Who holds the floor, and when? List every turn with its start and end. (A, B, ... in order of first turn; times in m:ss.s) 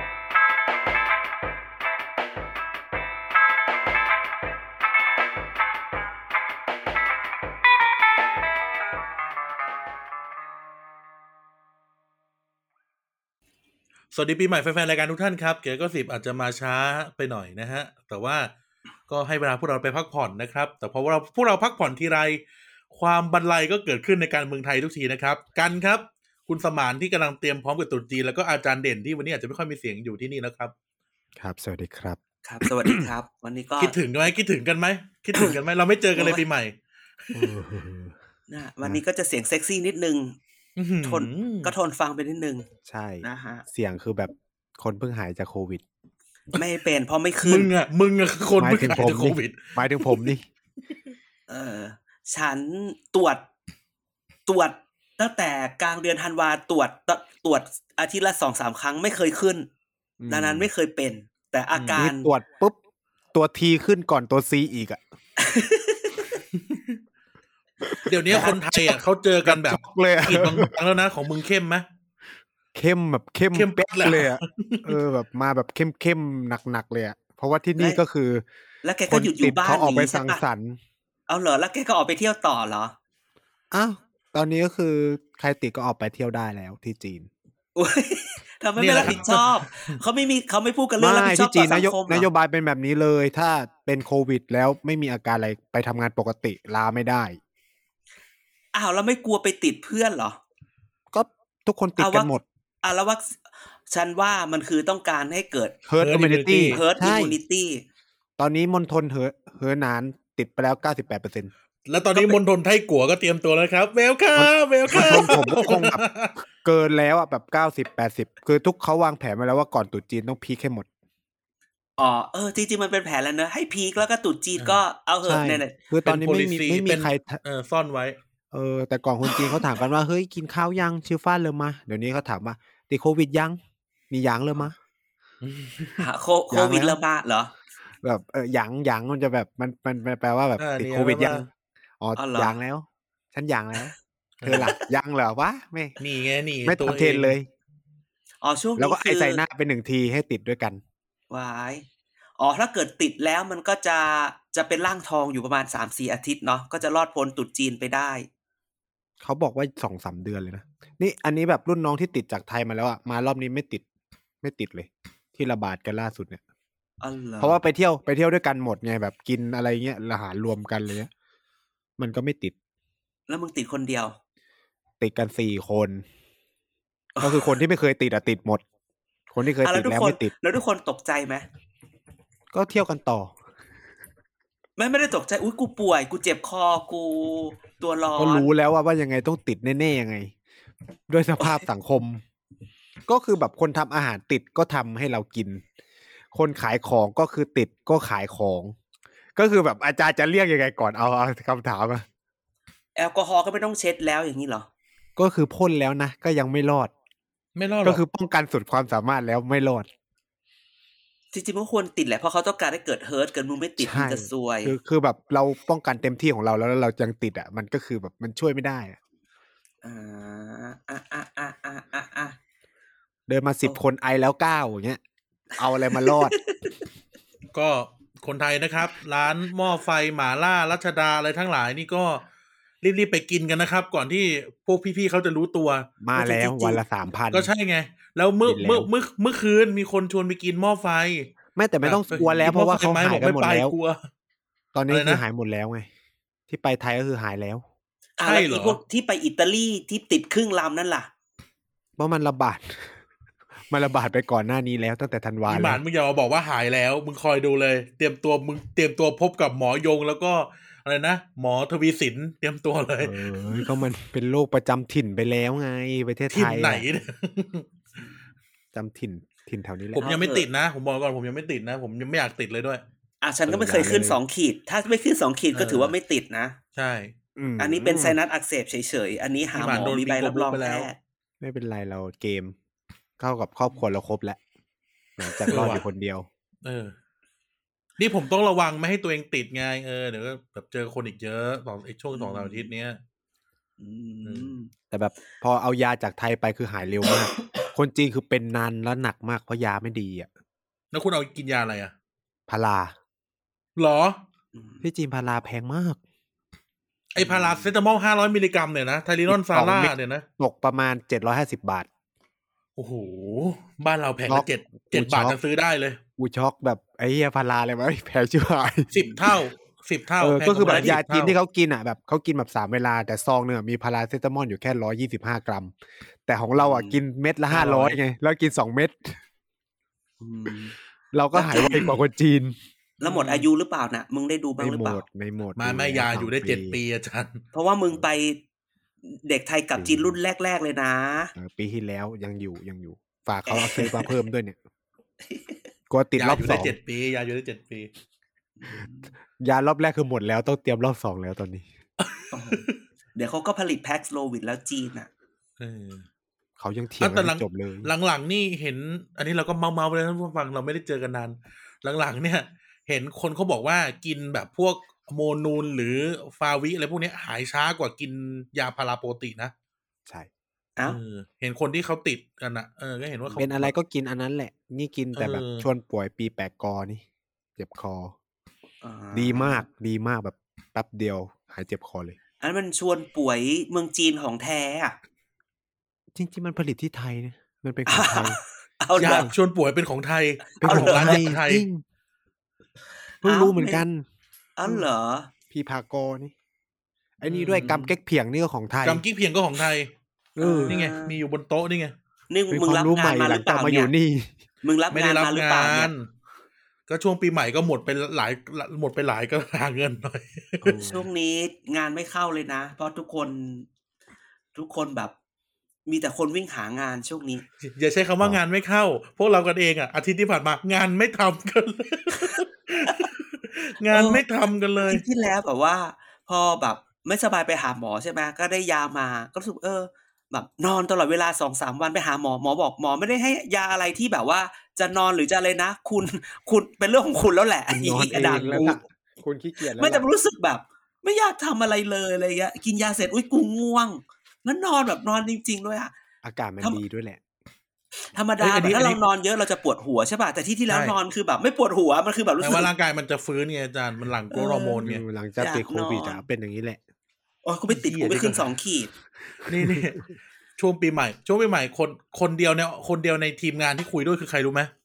0:14.1-0:18.5 A
0:19.1-0:30.7 A
0:31.4-0:33.1 B
0:32.4-0:33.9 C
0:33.8-0:36.8 A
0:36.2-0:36.4 C
0:37.3-0:38.1 B
0:38.5-0:40.4 C
0:40.8-0:41.7 A
0:41.0-0:42.7 C
0:42.8-0:45.8 B
0:43.2-0:43.6 C
0:46.5-0:47.7 C
0:47.5-0:50.3 A
0:48.6-0:50.5 B
0:51.5-0:53.5 C
0:54.5-0:59.7 C
1:00.2-1:00.7 B
1:00.3-1:02.3 C
1:02.0-1:02.8 B
1:03.3-1:05.0 B
1:05.4-1:06.4 C
1:06.6-1:07.0 A
1:08.1-1:11.8 A
1:08.3-1:08.6 B
1:08.3-1:08.6 C
1:09.4-1:10.7 B
1:12.8-1:18.4 B
1:13.5-1:15.0 A
1:18.8-1:20.4 C
1:19.1-1:20.8 B
1:21.3-1:23.0 C
1:23.7-1:27.3 B
1:27.8-1:32.3 C
1:28.8-1:30.0 A
1:29.1-1:29.3 B
1:31.0-1:37.4 B
1:38.7-1:40.4 C
1:41.1-1:42.4 B
1:42.0-1:42.3 C
1:42.8-1:43.4 C
1:43.9-1:45.8 C
1:45.9-1:47.4 B
1:46.0-1:46.8 A
1:46.7-1:47.8 C
1:48.4-1:51.5 B
1:51.9-1:56.4 A
1:54.4-1:56.0 B
1:54.9-1:55.5 C
1:56.6-2:00.9 B
2:02.0-2:05.8 C
2:05.2-2:07.4 B
2:06.0-2:08.2 A
2:08.5-2:13.6 B
2:09.3-2:09.6 C
2:14.1-2:14.8 B
2:15.4-2:16.0 A
2:16.0-2:17.5 C
2:16.5-2:17.0 B
2:18.0-2:21.5 B
2:20.6-2:21.4 A
2:22.0-2:26.0 B
2:22.2-2:22.6 C
2:24.4-2:24.7 A
2:24.5-2:24.8 C
2:26.0-2:27.4 A
2:26.6-2:27.5 B
2:28.4-2:29.4 C
2:28.8-2:30.8 B
2:31.3-2:31.9 C
2:32.4-2:38.3 C
2:39.2-2:43.8 B
2:44.4-2:46.4 B
2:47.0-2:47.6 C
2:47.4-2:51.1 B
2:52.0-2:52.6 B
2:53.3-2:54.2 C
2:55.0-2:56.0 B
2:57.2-2:57.6 C
2:57.2-2:58.6 B
2:59.3-3:00.3 B
2:59.6-3:01.4 C
3:02.5-3:03.3 B
3:04.8-3:08.5 C
3:08.2-3:10.3 B
3:11.1-3:12.2 B
3:11.4-3:11.6 C
3:13.1-3:15.6 B
3:16.3-3:18.8 B
3:19.4-3:22.0 B
3:23.0-3:24.7 C
3:25.2-3:26.9 B
3:27.6-3:28.0 A
3:27.8-3:29.9 B
3:31.3-3:34.7 C
3:33.8-3:39.0 B
3:39.8-3:42.4 C
3:43.3-3:45.0 B
3:45.6-3:46.4 B
3:45.8-3:46.8 C
3:47.5-3:52.2 A
3:52.8-3:55.9 A
3:56.0-3:57.5 B
3:56.2-3:56.8 C
3:57.3-4:04.0 A
3:58.4-3:58.9 B
4:01.6-4:03.7 B
4:04.7-4:05.9 B
4:04.9-4:05.2 A
4:06.5-4:07.6 B
4:08.2-4:11.1 C
4:08.2-4:08.8 A
4:12.0-4:12.9 B
4:13.7-4:15.8 B
4:15.5-4:23.2 A
4:23.0-4:26.8 B
4:26.3-4:27.7 A
4:28.7-4:30.0 B
4:30.0-4:30.5 C
4:30.0-4:32.8 A
4:33.2-4:36.6 C
4:33.5-4:34.2 B
4:35.5-4:35.9 A
4:36.8-4:37.1 A
4:37.4-4:38.2 B
4:37.6-4:41.0 C
4:39.5-4:40.9 A
4:41.4-4:42.6 B
4:43.2-4:44.4 B
4:45.2-4:46.3 B
4:45.2-4:45.7 C
4:45.5-4:45.8 A
4:46.6-4:46.9 A
4:48.0-4:53.0 A
4:52.1-4:52.7 C
4:53.8-4:54.7 C
4:54.2-4:54.6 A
4:54.9-5:00.3 B
5:00.9-5:01.9 A
5:02.5-5:03.0 B
5:03.8-5:04.2 A
5:04.5-5:04.8 C
5:04.8-5:06.0 B
5:07.1-5:10.2 A
5:07.2-5:07.7 B
5:09.3-5:11.9 B
5:12.8-5:16.0 A
5:14.3-5:15.4 B
5:16.2-5:18.9 B
5:18.9-5:21.4 A
5:20.2-5:25.7 B
5:20.7-5:21.0 C
5:26.3-5:29.2 B
5:26.6-5:27.0 C
5:27.5-5:28.0 A
5:30.2-5:30.8 C
5:31.1-5:32.6 B
5:31.3-5:31.9 C
5:33.0-5:35.0 C
5:33.0-5:33.5 A
5:34.6-5:36.8 B
5:35.6-5:37.4 A
5:37.5-5:38.4 C
5:39.0-5:41.3 C
5:39.8-5:40.2 B
5:41.4-5:44.6 B
5:43.5-5:44.2 C
5:45.3-5:45.6 C
5:45.9-5:46.8 B
5:46.2-5:47.9 A
5:48.6-5:49.1 C
5:49.4-5:51.7 B
5:52.0-5:52.8 A
5:52.3-5:52.6 C
5:53.2-5:55.1 C
5:55.6-5:56.0 A
5:56.6-5:57.9 B
5:57.0-6:09.5 A
6:10.8-6:13.7 A
6:13.4-6:17.0 B
6:15.2-6:15.7 A
6:17.6-6:18.1 B
6:18.8-6:19.7 C
6:19.1-6:22.2 B
6:22.4-6:25.0 C
6:26.1-6:28.4 B
6:27.9-6:29.3 C
6:29.0-6:31.6 A
6:30.6-6:31.3 C
6:30.6-6:31.8 B
6:33.2-6:34.0 B
6:33.2-6:33.8 C
6:34.6-6:35.3 C
6:35.5-6:36.3 B
6:37.2-6:39.0 B
6:37.3-6:37.8 A
6:37.6-6:37.9 C
6:38.8-6:39.9 A
6:40.4-6:40.8 B
6:40.4-6:41.2 C
6:40.7-6:41.9 A
6:42.3-6:43.9 C
6:42.5-6:44.3 B
6:44.6-6:45.9 C
6:44.9-6:46.1 A
6:46.9-6:50.7 A
6:50.6-6:51.1 B
6:50.8-6:53.7 C
6:54.6-6:55.1 C
6:55.9-6:57.4 C
6:57.6-7:05.0 A
7:02.2-7:03.1 C
7:03.9-7:04.2 C
7:04.8-7:18.8 C
7:17.7-7:20.1 B
7:18.2-7:18.8 A
7:19.7-7:25.9 C
7:26.2-7:27.2 B
7:28.1-7:32.7 C
7:28.4-7:29.0 A
7:30.7-7:31.0 A
7:32.4-7:35.0 A
7:34.3-7:34.8 C
7:34.8-7:36.8 B
7:35.4-7:36.2 C
7:37.4-7:38.9 C
7:37.7-7:38.5 A
7:39.5-7:44.7 A
7:39.6-7:39.9 B